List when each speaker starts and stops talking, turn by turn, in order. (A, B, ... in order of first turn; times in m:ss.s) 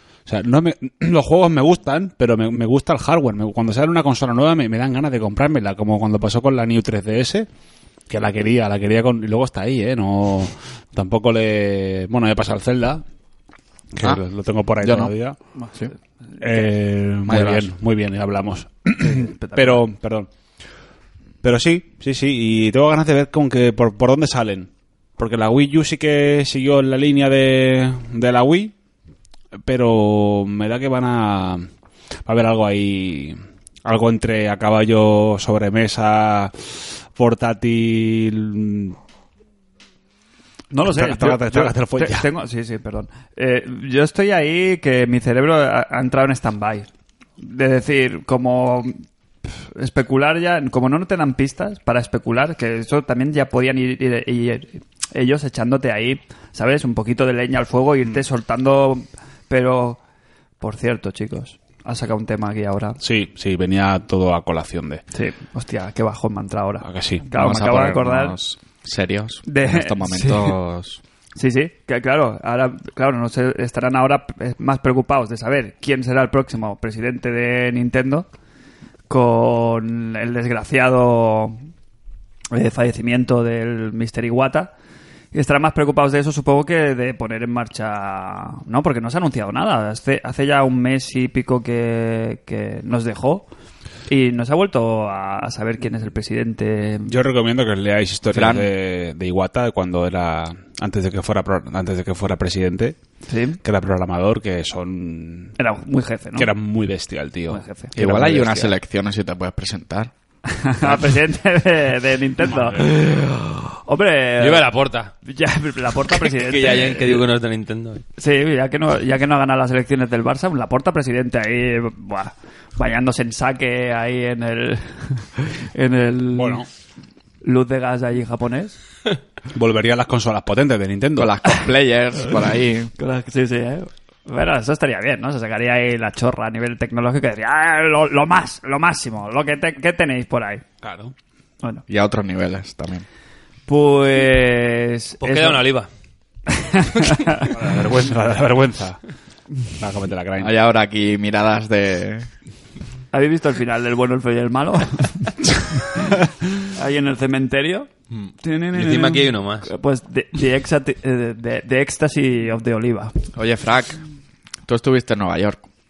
0:00.3-0:07.5 A
0:08.1-0:13.0 A
0:13.9-0:15.4 A
0:14.8-0:15.1 B
0:16.4-0:20.3 A
0:17.3-0:17.7 B
0:19.0-0:19.8 C
0:21.4-0:28.7 A
0:29.7-0:31.7 A
0:32.2-0:39.0 A
0:40.7-0:46.9 C
0:40.8-0:42.3 A
0:47.4-1:00.0 C
1:00.6-1:03.0 C
1:03.0-1:05.0 A
1:05.1-1:08.4 C
1:06.8-1:07.3 A
1:07.4-1:11.0 B
1:09.5-1:10.6 C
1:11.4-1:18.3 C
1:19.1-1:21.6 C
1:22.5-1:24.7 C
1:25.3-1:33.5 C
1:34.1-1:37.1 C
1:37.1-1:43.0 A
1:38.3-1:38.7 B
1:43.3-1:43.6 C
1:43.6-1:45.6 A
1:45.6-1:46.5 C
1:46.4-1:48.8 A
1:47.5-1:47.9 C
1:48.0-1:50.1 B
1:50.5-1:54.7 C
1:52.5-1:52.8 A
1:54.4-1:55.1 D
1:55.2-1:57.3 C
1:56.1-1:58.0 D
1:58.2-2:06.7 C
2:06.4-2:06.7 A
2:07.4-2:08.8 C
2:09.5-2:11.4 A
2:11.2-2:12.9 B
2:13.0-2:20.6 C
2:20.8-2:21.1 A
2:21.9-2:23.0 B
2:23.7-2:25.7 C
2:25.2-2:25.9 D
2:26.5-2:27.6 C
2:27.4-2:29.0 A
2:29.8-2:30.6 A
2:30.4-2:32.3 B
2:33.1-2:37.9 C
2:38.2-2:39.7 D
2:38.4-2:43.1 C
2:43.4-2:44.0 B
2:44.7-2:45.6 B